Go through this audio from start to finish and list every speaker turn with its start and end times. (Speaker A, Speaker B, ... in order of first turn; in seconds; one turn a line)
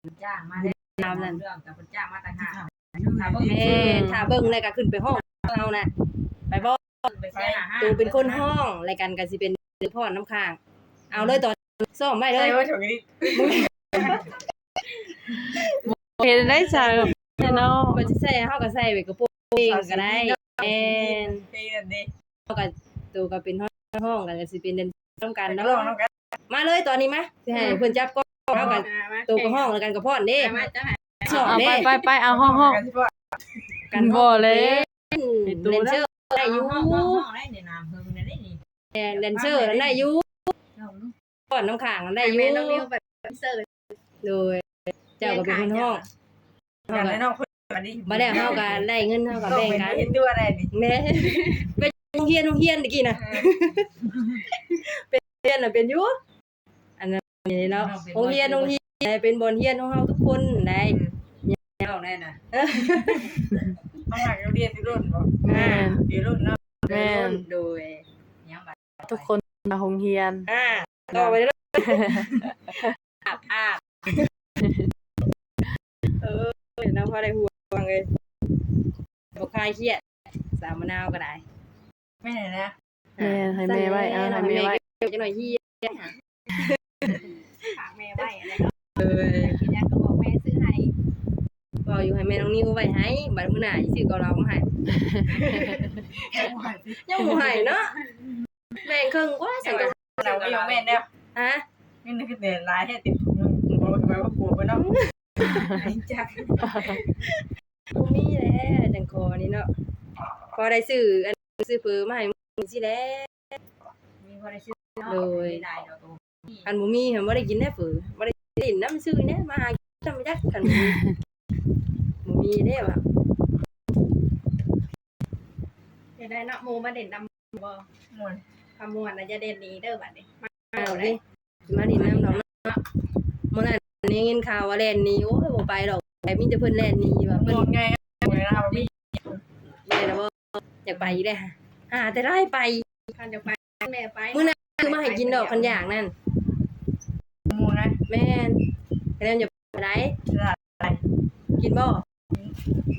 Speaker A: 0.1-4.0
Speaker B: 1.0-1.4
Speaker B: 3.4-5.9
Speaker B: 6.5-6.8
Speaker A: 7.0-8.4
Speaker C: 7.3-7.6
Speaker B: 7.8-10.6
Speaker B: 11.1-12.6
Speaker C: 12.3-14.2
Speaker B: 13.3-14.0
Speaker C: 15.3-15.7
Speaker D: 15.8-18.1
Speaker B: 17.5-21.5
Speaker C: 19.6-22.1
Speaker B: 22.5-25.9
Speaker C: 25.5-26.1
Speaker B: 26.5-30.7
Speaker E: 28.5-29.7
Speaker E: 30.4-31.1
Speaker B: 31.2-31.9
Speaker D: 31.2-32.8
Speaker C: 32.2-33.2
Speaker B: 33.9-37.2
Speaker D: 33.9-34.9
Speaker D: 35.5-36.0
Speaker A: 36.4-38.6
Speaker B: 39.0-40.5
Speaker A: 39.1-40.0
Speaker A: 40.8-41.1
Speaker B: 41.5-42.9
Speaker E: 42.2-43.7
Speaker B: 44.2-44.6
Speaker B: 45.2-46.0
Speaker E: 45.2-46.0
Speaker B: 46.9-47.2
Speaker C: 46.9-48.9
Speaker B: 48.1-50.1
Speaker C: 49.5-50.7
Speaker B: 50.7-56.2
Speaker B: 57.0-61.6
Speaker A: 57.8-58.8
Speaker A: 61.8-62.4
Speaker B: 62.5-63.5
Speaker C: 64.1-67.2
Speaker D: 65.4-66.0
Speaker B: 65.5-66.0
Speaker D: 66.9-67.5
Speaker B: 66.9-68.0
Speaker A: 68.4-69.2
Speaker D: 69.1-70.5
Speaker B: 70.5-72.3
Speaker D: 71.8-72.9
Speaker B: 73.3-73.8
Speaker D: 74.6-74.9
Speaker B: 76.2-78.1
Speaker B: 79.4-80.0
Speaker B: 80.6-81.4
Speaker C: 82.2-82.7
Speaker B: 83.2-87.2
Speaker D: 83.2-84.8
Speaker E: 87.8-90.9
Speaker B: 89.0-89.6
Speaker B: 91.8-98.0
Speaker A: 96.2-96.9
Speaker B: 98.8-100.0
Speaker C: 99.7-101.1
Speaker A: 100.2-101.0
Speaker B: 101.3-101.6
Speaker C: 102.0-104.9
Speaker B: 104.8-105.9
Speaker A: 105.7-106.8
Speaker B: 106.6-107.2
Speaker B: 107.9-109.7
Speaker B: 110.5-113.3
Speaker A: 114.2-116.7
Speaker B: 115.0-115.6
Speaker B: 116.7-121.1
Speaker B: 122.2-123.0
Speaker E: 126.2-127.9
Speaker C: 128.1-128.4
Speaker E: 128.8-131.2
Speaker B: 130.8-132.8
Speaker B: 133.5-137.7
Speaker C: 137.3-139.4
Speaker B: 138.3-138.9
Speaker B: 139.9-142.8
Speaker E: 143.1-145.8
Speaker B: 144.3-146.1
Speaker C: 147.5-148.0
Speaker B: 148.1-148.6
Speaker B: 149.2-150.2
Speaker C: 150.3-151.0
Speaker B: 151.6-152.0